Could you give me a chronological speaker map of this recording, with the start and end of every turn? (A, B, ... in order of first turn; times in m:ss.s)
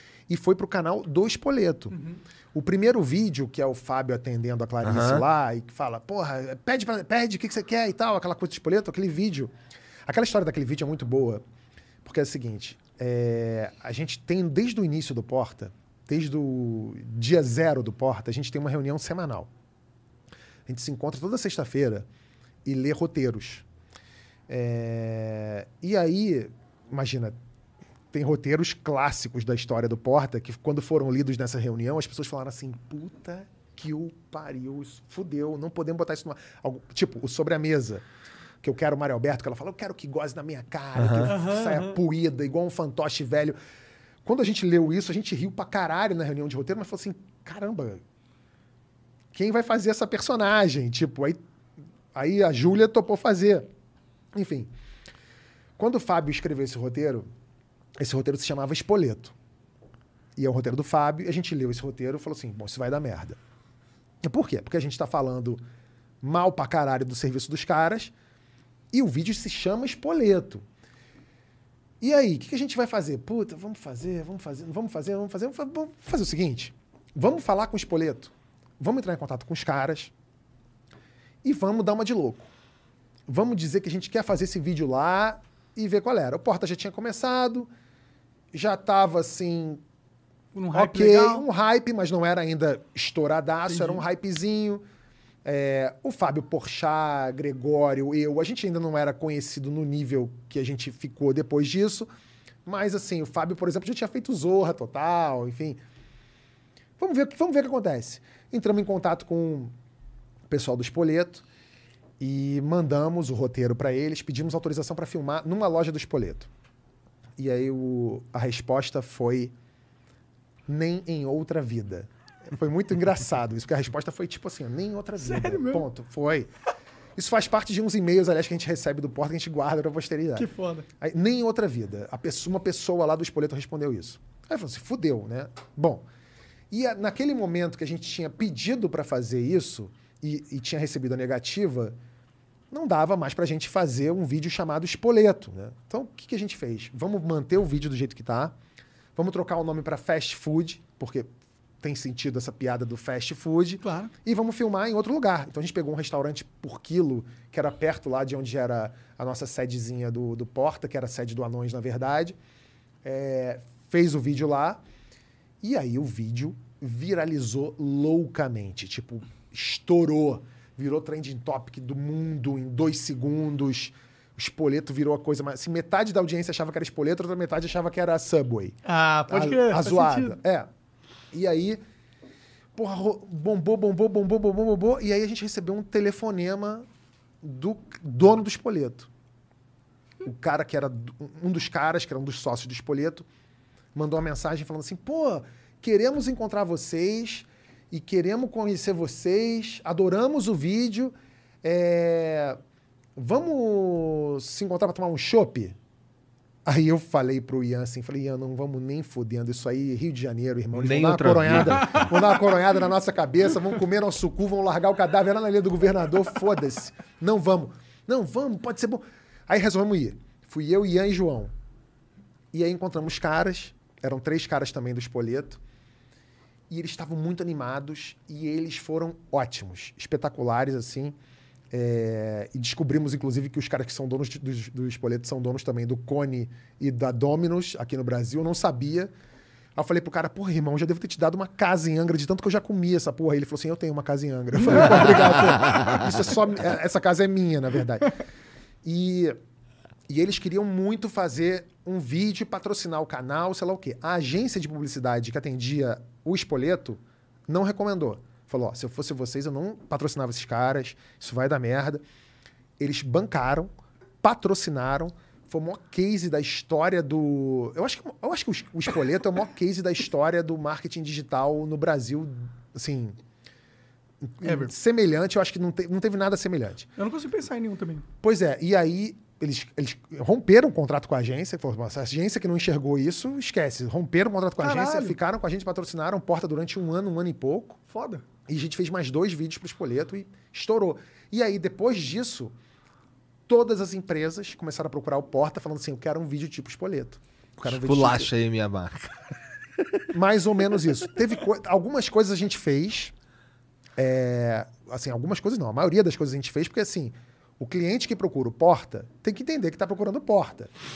0:00.3-0:02.0 A
0:01.9-0:02.2 B
0:02.5-0:09.5 A
0:04.8-0:05.2 C
0:10.0-0:11.4 A
0:12.0-0:19.5 A
0:20.7-0:22.0 A
0:22.6-0:23.6 A
0:24.5-0:27.3 A
0:28.1-0:38.0 A
0:38.6-0:43.6 A
0:41.0-0:41.4 C
0:41.2-0:42.0 B
0:44.2-0:48.0 A
0:49.3-0:51.4 A
0:52.1-0:53.7 A
0:54.3-0:54.7 A
0:55.8-0:57.2 A
0:58.0-0:59.3 A
1:00.4-1:03.4 A
1:04.2-1:05.6 A
1:06.2-1:08.1 A
1:08.9-1:10.6 A
1:12.0-1:20.1 A
1:21.4-1:22.5 A
1:23.3-1:27.7 A
1:28.5-1:29.8 A
1:30.5-1:31.4 B
1:30.7-1:34.8 A
1:33.7-1:34.0 B
1:35.4-1:42.1 A
1:42.6-1:45.8 A
1:47.0-1:49.7 A
1:50.5-1:51.4 A
1:52.2-1:56.5 A
1:57.4-1:59.5 A
2:00.7-2:06.5 A
2:05.2-2:05.8 B
2:07.2-2:10.5 A
2:10.4-2:10.8 B
2:11.0-2:16.0 A
2:16.7-2:22.0 A
2:22.7-2:28.5 A
2:29.2-2:31.3 A
2:31.8-2:42.4 A
2:33.8-2:34.1 B
2:43.0-2:44.8 A
2:45.6-2:58.8 A
2:58.8-3:00.4 B
2:59.3-3:00.7 A
3:01.3-3:01.8 A
3:02.7-3:06.9 A
3:07.4-3:09.1 A
3:10.2-3:13.2 A
3:13.9-3:22.6 A
3:23.2-3:25.8 A
3:26.6-3:41.5 A
3:30.7-3:32.1 C
3:42.5-3:45.6 A
3:46.7-3:51.1 A
3:51.7-3:59.1 A
3:59.8-4:08.1 A
4:04.7-4:05.3 B
4:08.8-4:09.4 A
4:10.1-4:22.0 A
4:22.8-4:23.7 A
4:24.2-4:33.2 A
4:34.3-4:36.9 A
4:34.4-4:34.7 B
4:37.0-4:38.0 B
4:38.2-4:47.8 A
4:44.6-4:45.2 B
4:47.9-4:48.2 B
4:48.5-4:52.5 A
4:53.5-4:58.3 A
4:57.6-4:59.2 C
5:00.1-5:03.1 A
5:04.0-5:10.7 A